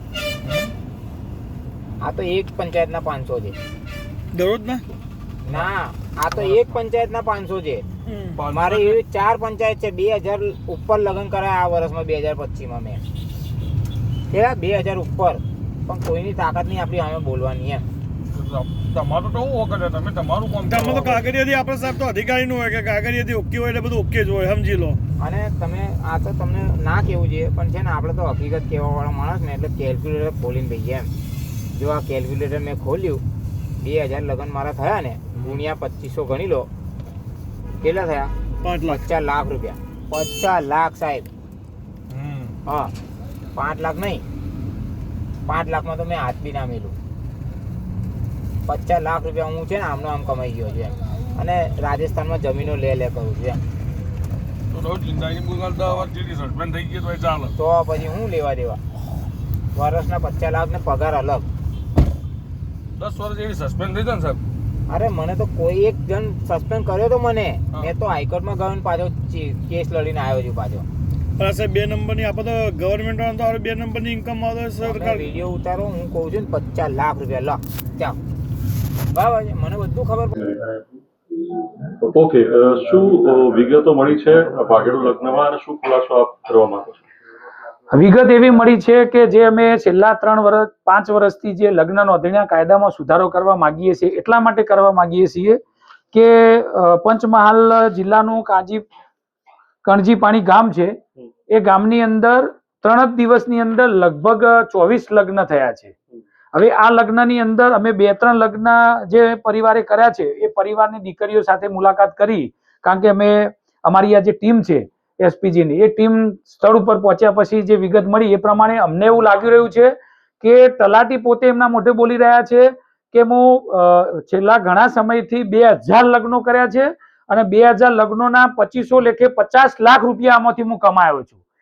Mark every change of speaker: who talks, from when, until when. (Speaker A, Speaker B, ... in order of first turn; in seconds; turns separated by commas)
Speaker A: 0.4-0.7, Speaker B: 2.0-3.6, Speaker C: 4.3-4.8, Speaker B: 5.5-7.9, Speaker C: 8.1-8.4, Speaker A: 8.3-9.0, Speaker B: 8.5-13.0, Speaker B: 14.3-17.9, Speaker A: 18.3-20.9, Speaker C: 20.6-25.0, Speaker B: 25.2-31.1, Speaker B: 31.8-33.2, Speaker B: 33.8-36.7, Speaker B: 37.8-41.3, Speaker C: 38.6-39.0, Speaker C: 42.1-42.5, Speaker B: 42.7-42.9, Speaker B: 43.5-44.2, Speaker B: 45.5-47.0, Speaker B: 48.7-53.6, Speaker A: 54.7-57.5, Speaker B: 57.6-58.8, Speaker B: 59.7-61.5, Speaker A: 63.0-64.4, Speaker B: 64.9-70.9, Speaker C: 71.4-75.3, Speaker B: 74.8-78.2, Speaker B: 79.1-80.4, Speaker D: 80.5-80.8, Speaker D: 81.9-87.0, Speaker E: 87.9-95.6, Speaker E: 96.1-98.8, Speaker E: 99.8-105.9, Speaker E: 106.5-131.4